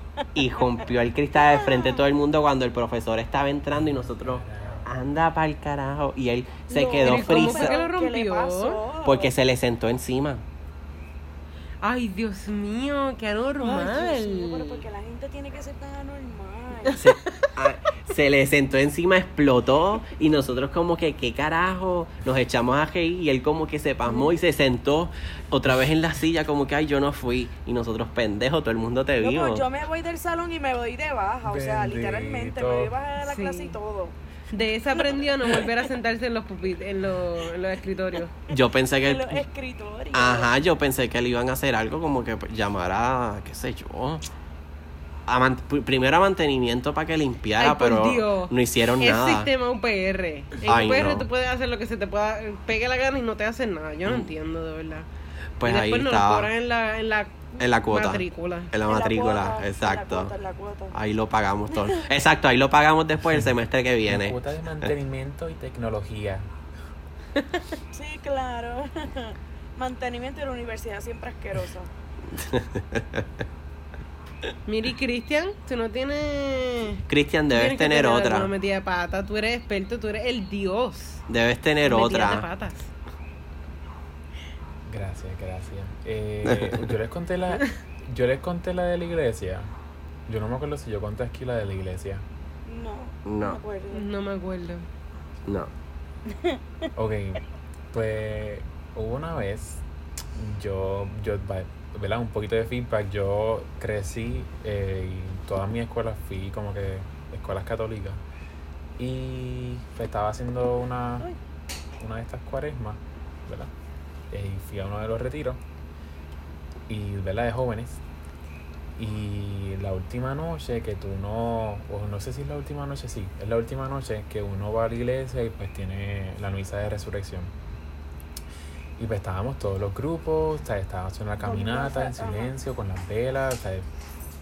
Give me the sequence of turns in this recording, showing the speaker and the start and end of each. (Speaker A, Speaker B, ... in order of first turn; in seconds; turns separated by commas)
Speaker A: 0.3-7.8, Speaker B: 1.4-2.0, Speaker C: 3.8-4.8, Speaker B: 6.7-9.3, Speaker D: 7.0-8.8, Speaker A: 9.0-10.4, Speaker D: 11.8-14.8, Speaker B: 13.6-17.0, Speaker A: 16.9-29.7, Speaker B: 29.2-34.2, Speaker C: 31.4-32.9, Speaker D: 33.2-33.8, Speaker D: 34.5-38.4, Speaker A: 38.5-39.4, Speaker B: 39.0-40.5, Speaker A: 40.1-44.2, Speaker A: 45.3-49.5, Speaker D: 47.6-55.1, Speaker A: 50.6-51.3, Speaker A: 55.6-56.5, Speaker D: 55.6-58.7, Speaker A: 57.6-60.3, Speaker B: 58.9-61.0, Speaker A: 60.9-64.9, Speaker C: 64.1-66.5, Speaker B: 67.9-71.9, Speaker A: 72.3-73.3, Speaker D: 74.7-77.0, Speaker A: 77.1-78.5, Speaker D: 77.5-81.2, Speaker A: 81.3-82.5, Speaker D: 81.8-82.9, Speaker C: 84.9-89.7, Speaker A: 86.5-86.9, Speaker C: 90.3-92.2, Speaker B: 92.7-94.1, Speaker A: 93.3-93.6, Speaker D: 93.9-94.9, Speaker A: 95.5-95.7, Speaker B: 96.3-96.6, Speaker C: 97.0-99.8, Speaker C: 100.3-108.2, Speaker C: 109.0-111.3, Speaker C: 112.0-113.7, Speaker C: 114.3-115.6, Speaker C: 116.9-118.0, Speaker C: 119.0-127.5, Speaker C: 129.0-133.8, Speaker B: 131.4-132.5